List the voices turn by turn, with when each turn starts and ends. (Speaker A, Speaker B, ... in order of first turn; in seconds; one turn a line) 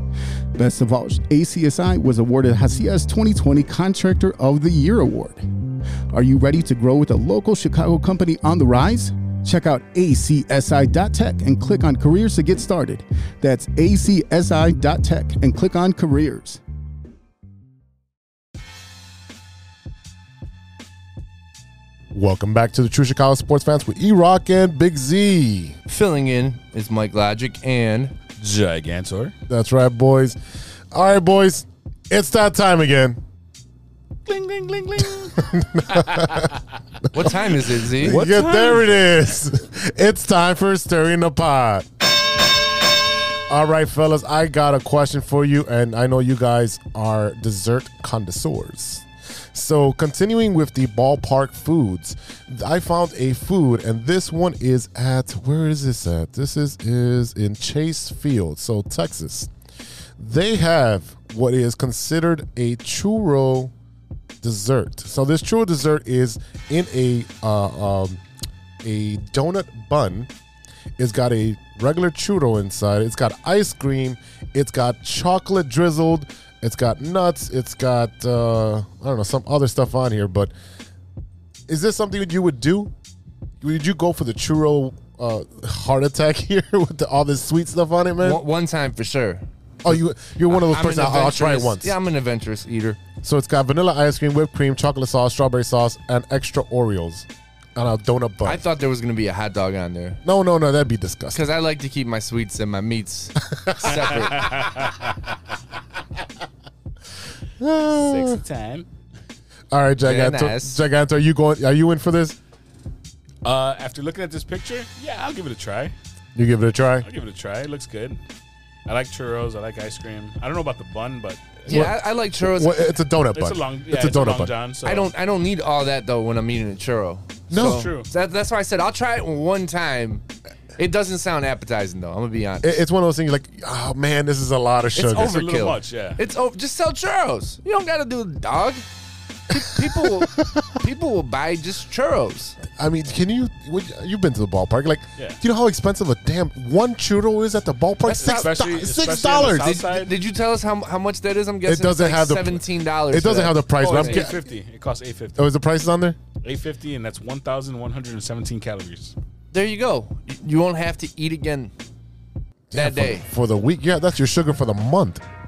Speaker A: 0.6-5.4
Speaker A: 6.1-16.6
Speaker B: 22.1-25.8
Speaker C: 25.9-28.1
Speaker D: 28.4-29.4
Speaker B: 29.5-30.4
Speaker B: 30.9-33.2
Speaker D: 34.3-35.4
Speaker B: 35.4-36.5
Speaker D: 35.9-36.5
Speaker C: 37.1-38.2
Speaker B: 38.0-41.9
Speaker D: 38.0-39.0
Speaker B: 43.5-59.5
Speaker B: 60.2-63.7
Speaker B: 64.4-68.2
Speaker B: 68.8-70.3
Speaker B: 71.0-80.5
Speaker B: 81.7-82.9
Speaker B: 83.6-88.4
Speaker C: 88.2-89.4
Speaker B: 89.8-92.0
Speaker C: 90.5-93.0
Speaker B: 93.2-98.6
Speaker C: 98.5-100.2
Speaker B: 100.2-101.4
Speaker C: 101.3-104.7
Speaker B: 103.5-104.3
Speaker D: 104.3-105.0
Speaker B: 107.6-108.4
Speaker D: 107.8-108.9
Speaker B: 109.7-112.4
Speaker C: 110.0-110.8
Speaker D: 113.4-116.0
Speaker B: 116.4-117.1
Speaker D: 117.0-118.2
Speaker D: 118.9-121.9
Speaker C: 121.7-122.8
Speaker B: 121.7-122.0
Speaker B: 122.5-124.5
Speaker D: 123.3-125.1
Speaker C: 124.8-130.2
Speaker B: 127.5-127.8
Speaker D: 127.5-128.1
Speaker C: 130.8-132.8
Speaker B: 132.6-135.4
Speaker C: 135.0-138.8
Speaker D: 135.1-136.2
Speaker C: 139.5-142.6
Speaker B: 139.5-140.7
Speaker B: 142.8-149.8
Speaker C: 148.1-148.5
Speaker D: 148.2-150.1
Speaker C: 149.6-154.2
Speaker B: 151.7-154.4
Speaker D: 153.8-155.5
Speaker B: 155.4-156.2
Speaker D: 156.4-159.2
Speaker C: 159.5-161.7
Speaker B: 162.7-165.2
Speaker C: 162.7-163.3